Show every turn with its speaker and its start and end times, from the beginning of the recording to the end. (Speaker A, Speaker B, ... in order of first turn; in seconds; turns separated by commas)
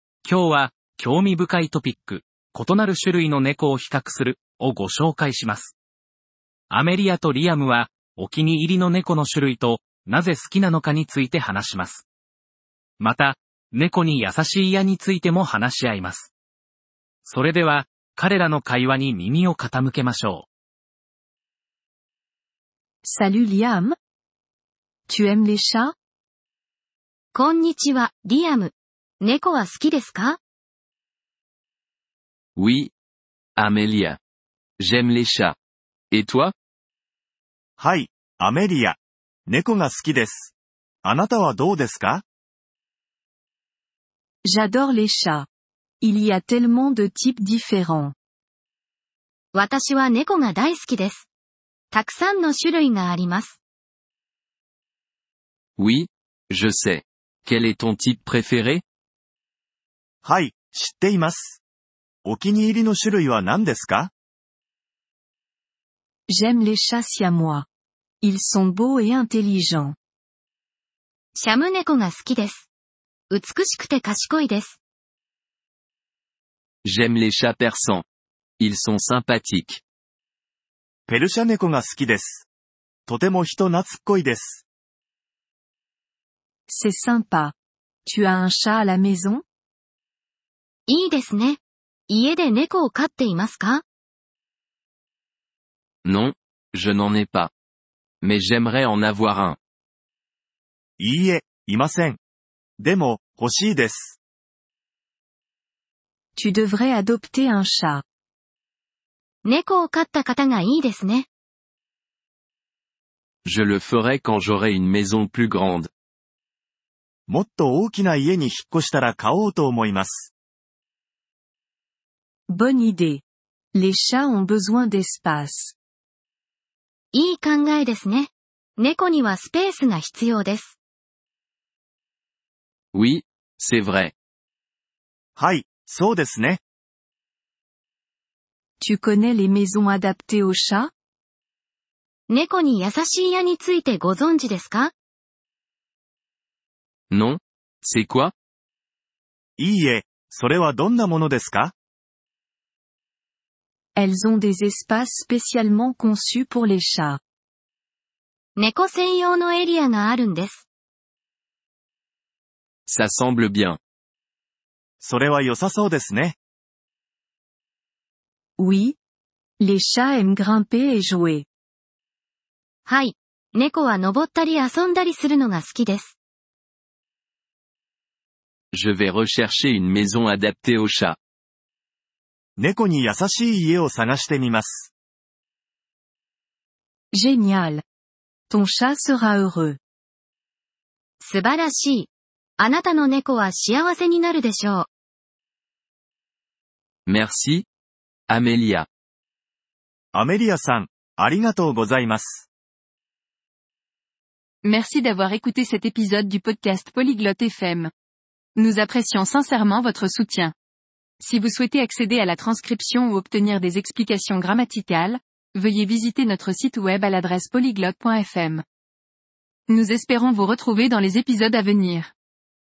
Speaker A: 0.2-5.7, Speaker A: 6.7-12.0, Speaker A: 13.0-16.3, Speaker A: 17.2-20.5, Speaker B: 23.0-24.0, Speaker B: 25.1-25.9, Speaker C: 27.3-30.4, Speaker D: 32.5-32.9, Speaker D: 33.5-34.2, Speaker D: 34.8-35.6, Speaker D: 36.1-36.5, Speaker E: 37.8-40.5, Speaker E: 41.0-42.2, Speaker B: 44.5-45.5, Speaker B: 46.0-48.1, Speaker C: 49.5-51.3, Speaker C: 51.9-53.6, Speaker D: 55.8-58.8, Speaker E: 60.2-61.6, Speaker E: 62.2-64.1, Speaker B: 66.3-67.7, Speaker B: 68.2-70.0, Speaker C: 71.4-72.7, Speaker C: 73.3-74.8, Speaker D: 76.8-78.0, Speaker D: 78.6-79.8, Speaker E: 81.1-82.5, Speaker E: 83.1-84.6, Speaker B: 86.7-87.5, Speaker B: 88.1-89.4, Speaker C: 90.9-93.8, Speaker D: 96.0-97.5, Speaker D: 98.2-99.6, Speaker E: 101.0-102.2, Speaker E: 102.8-104.2, Speaker B: 106.4-108.0, Speaker C: 109.5-111.3, Speaker D: 113.5-115.9, Speaker E: 117.3-120.3, Speaker B: 122.5-125.7, Speaker C: 127.1-130.8, Speaker D: 132.9-134.1, Speaker E: 135.3-136.6, Speaker B: 138.8-140.9, Speaker C: 142.3-144.9, Speaker D: 147.1-148.3, Speaker E: 149.6-151.7, Speaker B: 153.9-157.2, Speaker C: 158.6-160.6, Speaker D: 162.9-163.8, Speaker E: 165.0-166.3, Speaker B: 168.6-169.0, Speaker B: 169.6-171.4, Speaker C: 172.9-176.2, Speaker D: 178.7-181.2, Speaker E: 182.6-184.9, Speaker B: 187.1-187.8, Speaker B: 188.5-189.8, Speaker C: 191.2-194.9, Speaker D: 197.1-197.7, Speaker D: 198.3-198.9, Speaker E: 200.1-202.5, Speaker F: 204.6-207.9, Speaker F: 208.6-210.5, Speaker F: 211.2-218.6, Speaker F: 219.7-222.1